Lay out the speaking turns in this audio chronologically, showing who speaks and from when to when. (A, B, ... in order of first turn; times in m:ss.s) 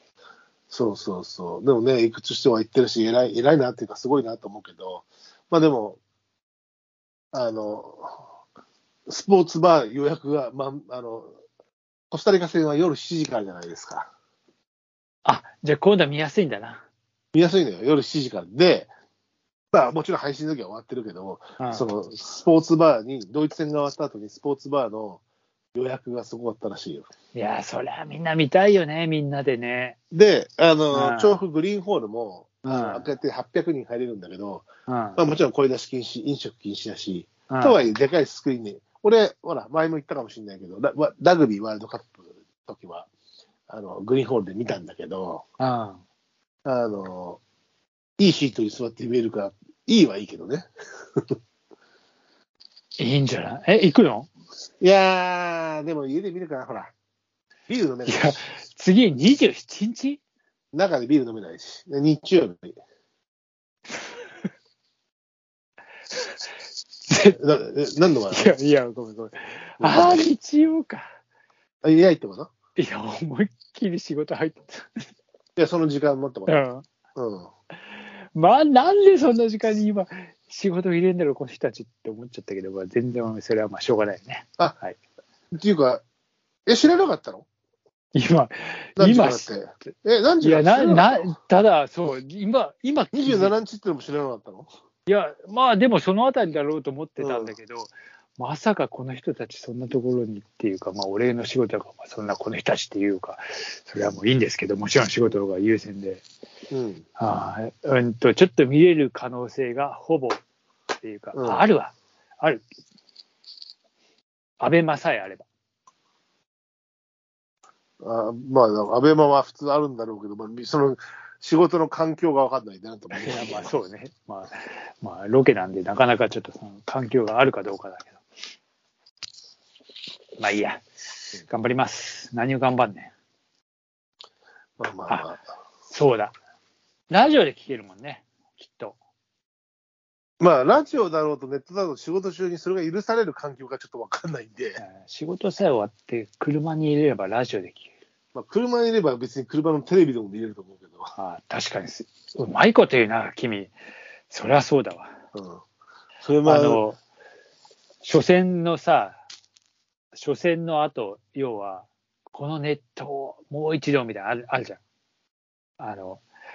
0:00.7-0:06.0 A
0:07.3-0:08.3 A
0:09.1-0:11.3 A
0:12.1-0:14.1 A
0:15.2-0:16.8 B
0:17.3-0:18.9 A
0:19.7-0:25.2 A
0:21.6-0:21.8 B
0:25.8-0:27.1 A
0:27.3-0:30.0 B
0:30.1-0:43.1 A
0:30.9-0:31.4 B
0:32.6-0:33.1 B
0:34.9-0:35.2 B
0:37.5-0:37.8 B
0:43.7-0:45.4 A
0:45.6-0:46.0 B
0:46.7-0:47.4 A
0:48.2-0:51.2 A
0:53.0-0:54.3 B
0:54.8-0:56.9 A
0:57.7-0:58.4 A
0:58.1-1:00.2 B
1:00.7-1:02.8 A
1:07.1-1:07.4 B
1:07.2-1:08.6 A
1:08.3-1:11.1 B
1:09.8-1:10.2 A
1:11.8-1:12.5 A
1:12.8-1:15.0 B
1:15.6-1:16.6 A
1:16.5-1:16.8 B
1:17.2-1:17.5 A
1:17.9-1:25.0 B
1:25.5-1:26.0 A
1:26.7-1:27.5 A
1:28.1-1:29.5 B
1:29.0-1:31.3 A
1:30.4-1:33.5 B
1:33.1-1:34.7 A
1:35.1-1:46.2 B
1:37.2-1:37.5 A
1:46.7-1:47.0 A
1:47.2-1:50.4 B
1:51.0-1:52.6 B
1:51.4-1:51.6 A
1:54.6-1:55.5 B
1:58.0-2:03.7 A
2:03.1-2:08.2 B
2:10.4-2:13.1 B
2:14.8-2:15.4 A
2:15.9-2:16.3 B
2:17.1-2:19.0 B
2:20.4-2:24.8 A
2:24.8-2:27.9 B
2:28.3-2:31.1 A
2:31.2-2:33.7 B
2:34.3-2:35.1 B
2:35.3-2:35.6 A
2:36.2-2:36.8 A
2:36.4-2:37.0 B
2:38.0-2:39.2 B
2:40.1-2:44.8 B
2:45.8-2:46.2 B